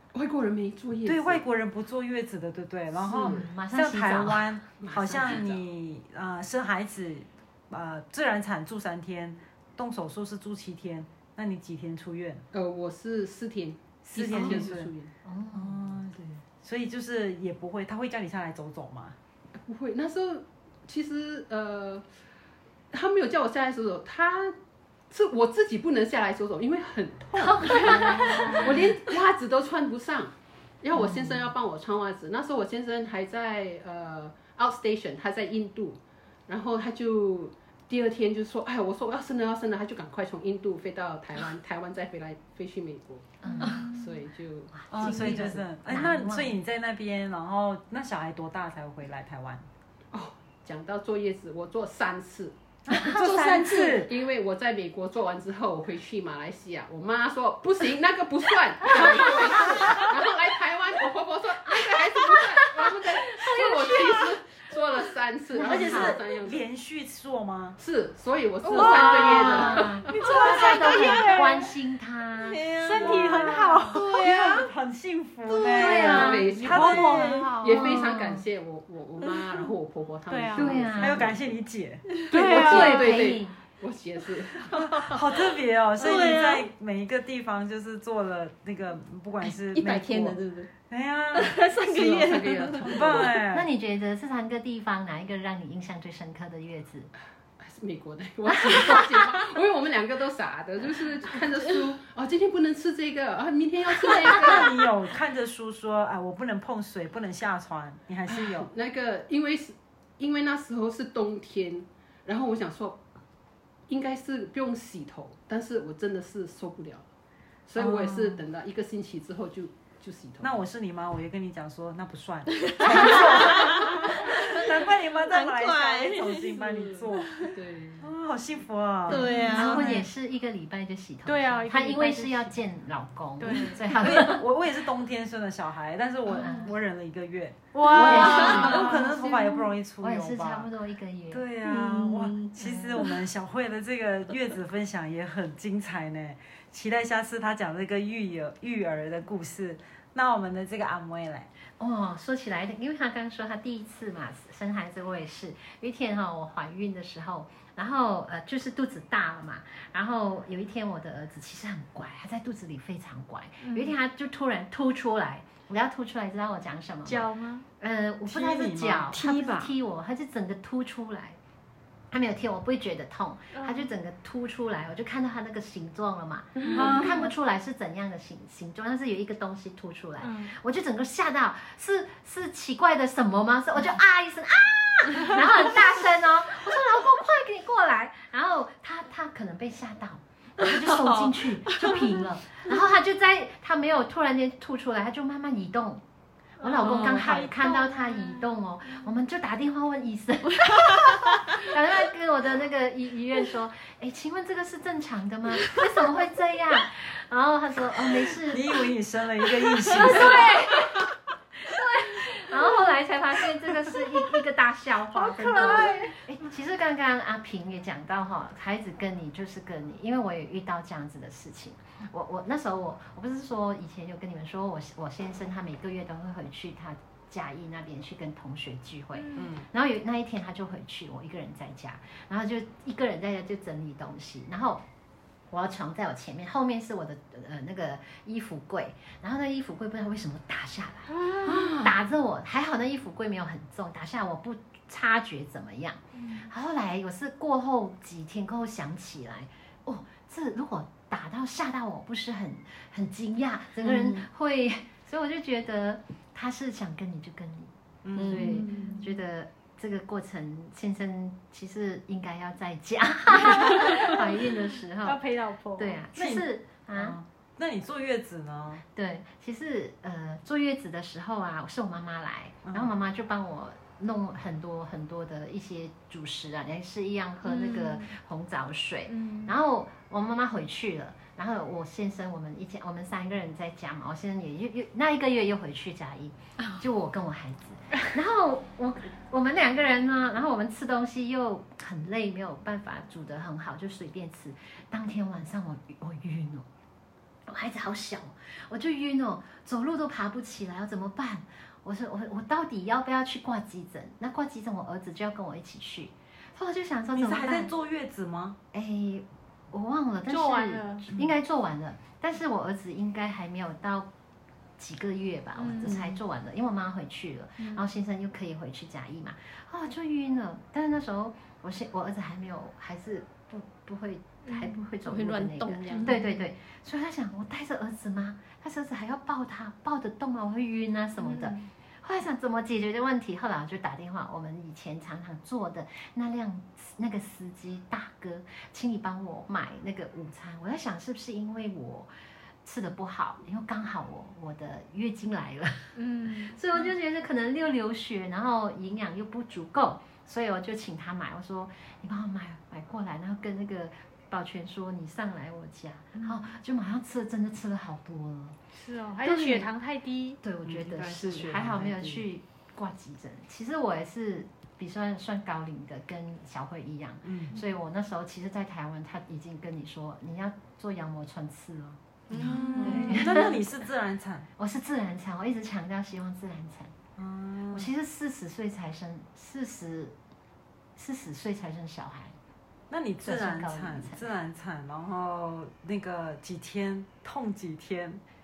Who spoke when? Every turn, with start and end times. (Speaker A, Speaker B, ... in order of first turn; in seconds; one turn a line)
Speaker A: 0.1-1.4
Speaker B: 1.0-12.4
Speaker A: 3.0-3.5
Speaker C: 3.2-4.6
Speaker A: 4.8-5.6
Speaker A: 12.5-15.1
Speaker B: 14.0-14.9
Speaker C: 14.3-14.6
Speaker C: 15.2-15.8
Speaker B: 15.5-19.2
Speaker A: 19.5-22.0
Speaker A: 22.9-24.6
Speaker A: 25.1-45.6
Speaker C: 27.4-28.7
Speaker D: 27.6-28.7
Speaker C: 30.9-31.5
Speaker C: 43.4-43.9
Speaker D: 43.6-44.0
Speaker C: 44.8-46.5
Speaker B: 44.9-49.7
Speaker A: 50.1-66.7
Speaker C: 52.9-53.2
Speaker B: 52.9-54.1
Speaker E: 53.2-53.9
Speaker E: 63.3-64.3
Speaker C: 65.5-66.2
Speaker B: 65.6-67.8
Speaker A: 67.8-70.4
Speaker D: 68.7-71.7
Speaker C: 68.7-73.6
Speaker E: 72.5-73.1
Speaker D: 72.8-74.6
Speaker B: 73.0-77.6
Speaker E: 73.9-74.7
Speaker E: 75.5-76.0
Speaker C: 75.7-76.5
Speaker A: 75.8-81.4
Speaker D: 75.9-78.1
Speaker C: 77.7-78.4
Speaker D: 80.3-80.8
Speaker C: 80.5-81.3
Speaker B: 80.6-82.1
Speaker D: 82.3-83.3
Speaker A: 82.3-84.9
Speaker C: 82.4-83.5
Speaker E: 84.6-85.2
Speaker B: 84.7-90.4
Speaker E: 86.0-86.6
Speaker E: 89.4-90.7
Speaker B: 90.9-91.6
Speaker E: 91.3-93.0
Speaker A: 91.8-93.3
Speaker B: 92.3-93.7
Speaker C: 93.5-97.1
Speaker A: 97.6-104.8
Speaker C: 98.5-99.0
Speaker B: 104.2-108.7
Speaker A: 108.3-113.0
Speaker A: 113.9-117.1
Speaker A: 117.7-120.6
Speaker B: 117.8-118.4
Speaker B: 120.4-127.4
Speaker E: 122.7-126.5
Speaker A: 126.5-128.1
Speaker B: 128.0-129.9
Speaker E: 129.1-130.0
Speaker D: 129.1-130.1
Speaker C: 129.5-134.4
Speaker D: 131.2-132.5
Speaker D: 133.4-134.1
Speaker B: 133.9-140.7
Speaker C: 136.4-136.7
Speaker D: 137.7-139.0
Speaker C: 138.0-141.4
Speaker B: 141.3-151.5
Speaker E: 141.6-143.0
Speaker C: 142.6-143.1
Speaker C: 151.8-171.4
Speaker D: 163.6-163.9
Speaker D: 167.1-167.7
Speaker B: 168.2-169.1
Speaker E: 169.1-169.7
Speaker C: 172.1-196.0
Speaker D: 173.5-173.9
Speaker D: 176.6-177.3
Speaker E: 176.7-177.1
Speaker D: 180.2-180.5
Speaker D: 196.6-199.1
Speaker C: 196.6-208.9
Speaker B: 208.4-210.5
Speaker C: 209.9-211.1
Speaker D: 210.1-210.8
Speaker C: 211.6-234.8
Speaker D: 215.1-216.2
Speaker D: 229.1-229.5
Speaker B: 229.3-229.7
Speaker C: 235.5-265.2
Speaker D: 241.1-241.7
Speaker D: 246.2-246.5
Speaker E: 253.8-254.2
Speaker B: 258.0-258.4
Speaker E: 258.1-258.9
Speaker D: 258.3-259.2
Speaker D: 263.4-264.2
Speaker D: 265.0-266.0
Speaker C: 265.8-267.2
Speaker B: 266.1-268.8
Speaker C: 268.9-296.7
Speaker B: 272.6-272.9
Speaker D: 277.4-278.1
Speaker D: 279.1-279.6
Speaker E: 286.6-286.9
Speaker C: 297.4-307.7
Speaker B: 307.1-308.6
Speaker C: 308.7-314.1
Speaker D: 310.3-311.1
Speaker C: 314.8-342.1
Speaker D: 315.6-316.0
Speaker D: 317.6-317.9
Speaker D: 324.4-324.7
Speaker E: 325.0-326.1
Speaker D: 325.9-326.5
Speaker D: 331.2-331.7
Speaker C: 342.6-345.9
Speaker D: 345.9-346.9
Speaker C: 346.5-358.6
Speaker D: 356.1-356.5
Speaker D: 358.8-360.4
Speaker C: 359.2-359.7
Speaker C: 360.4-373.6
Speaker B: 360.6-362.2
Speaker B: 367.2-367.5
Speaker B: 372.3-374.5
Speaker D: 372.3-373.4
Speaker C: 374.6-376.9
Speaker B: 377.2-377.9
Speaker C: 377.7-380.1
Speaker C: 380.9-382.4
Speaker B: 382.9-388.2
Speaker C: 383.2-384.2